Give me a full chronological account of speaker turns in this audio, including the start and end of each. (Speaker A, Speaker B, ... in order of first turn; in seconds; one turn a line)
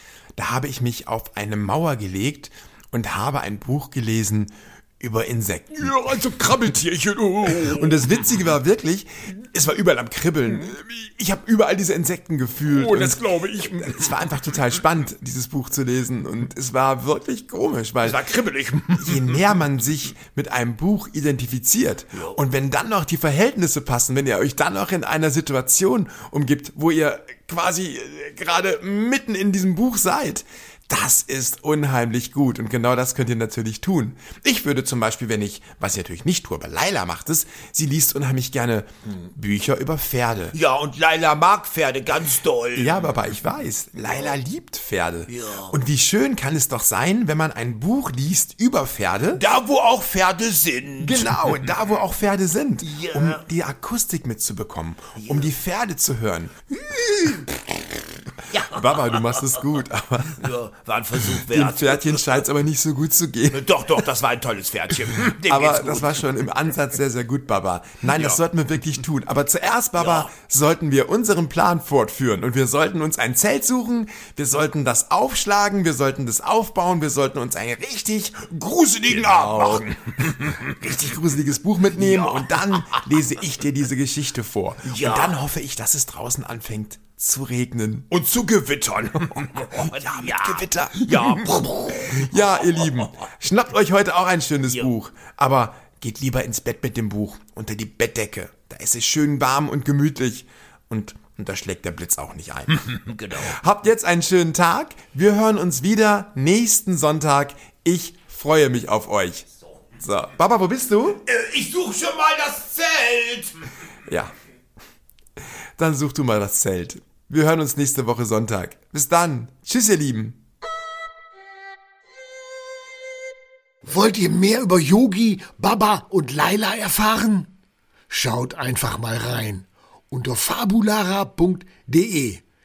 Speaker A: 0.4-6.0
Speaker B: 5.8-8.3
Speaker A: 7.5-18.2
Speaker B: 12.7-14.6
Speaker B: 18.0-19.6
Speaker A: 18.9-40.6
Speaker B: 40.5-43.2
Speaker A: 42.8-49.5
Speaker B: 45.3-45.8
Speaker B: 49.4-51.7
Speaker A: 51.0-56.5
Speaker B: 52.8-53.4
Speaker B: 55.2-55.5
Speaker A: 57.2-57.6
Speaker B: 58.5-59.5
Speaker A: 58.6-60.5
Speaker B: 60.4-62.4
Speaker A: 61.2-63.8
Speaker B: 63.5-66.2
Speaker A: 65.1-78.5
Speaker B: 68.0-68.4
Speaker B: 70.0-70.3
Speaker B: 78.5-80.8
Speaker A: 79.1-88.1
Speaker B: 81.9-83.2
Speaker B: 84.8-85.4
Speaker B: 88.1-93.0
Speaker A: 89.3-109.5
Speaker B: 102.9-103.6
Speaker A: 110.0-111.2
Speaker B: 111.2-113.6
Speaker A: 114.1-114.3
Speaker A: 115.8-120.4
Speaker C: 123.8-127.5
Speaker C: 128.1-132.4